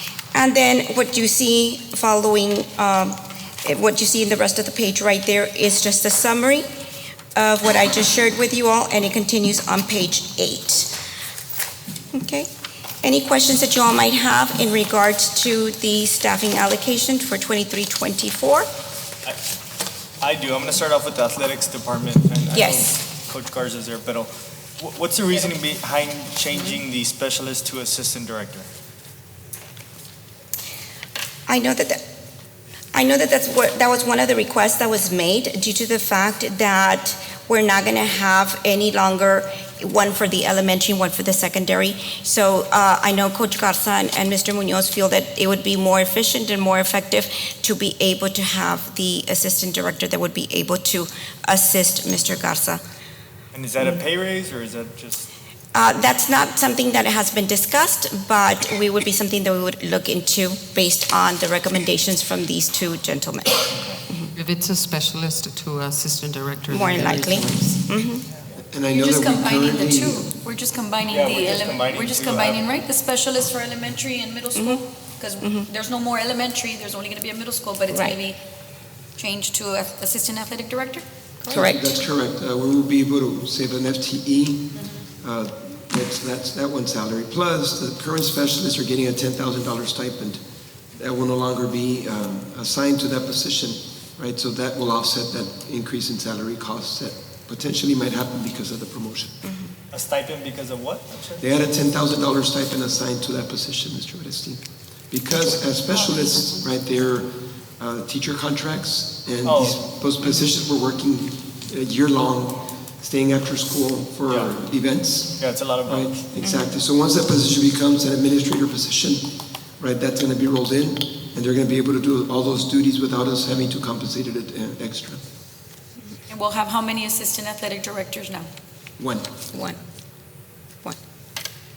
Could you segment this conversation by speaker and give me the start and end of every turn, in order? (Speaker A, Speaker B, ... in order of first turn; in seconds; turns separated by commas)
Speaker A: 0.3-6.7, Speaker A: 7.3-11.0, Speaker A: 12.1-12.5, Speaker A: 13.0-18.7, Speaker B: 20.2-28.7, Speaker A: 22.5-23.0, Speaker A: 31.5-32.0, Speaker A: 32.9-52.8, Speaker B: 53.5-55.3, Speaker A: 55.7-63.8, Speaker C: 64.3-67.8, Speaker A: 66.7-68.2, Speaker D: 68.6-70.3, Speaker E: 68.9-78.4, Speaker B: 71.0-72.8, Speaker A: 74.5-74.8, Speaker A: 75.4-75.7, Speaker A: 77.9-78.2, Speaker E: 79.2-81.0, Speaker A: 81.4-82.0, Speaker D: 81.5-90.4, Speaker E: 84.7-85.0, Speaker D: 91.0-99.3, Speaker A: 99.5-99.7, Speaker B: 99.9-101.4, Speaker D: 101.4-125.2, Speaker B: 109.4-109.8, Speaker B: 114.3-114.5, Speaker B: 115.4-116.2, Speaker A: 116.4-116.7, Speaker E: 126.3-128.5, Speaker D: 129.0-129.3, Speaker A: 129.5-129.8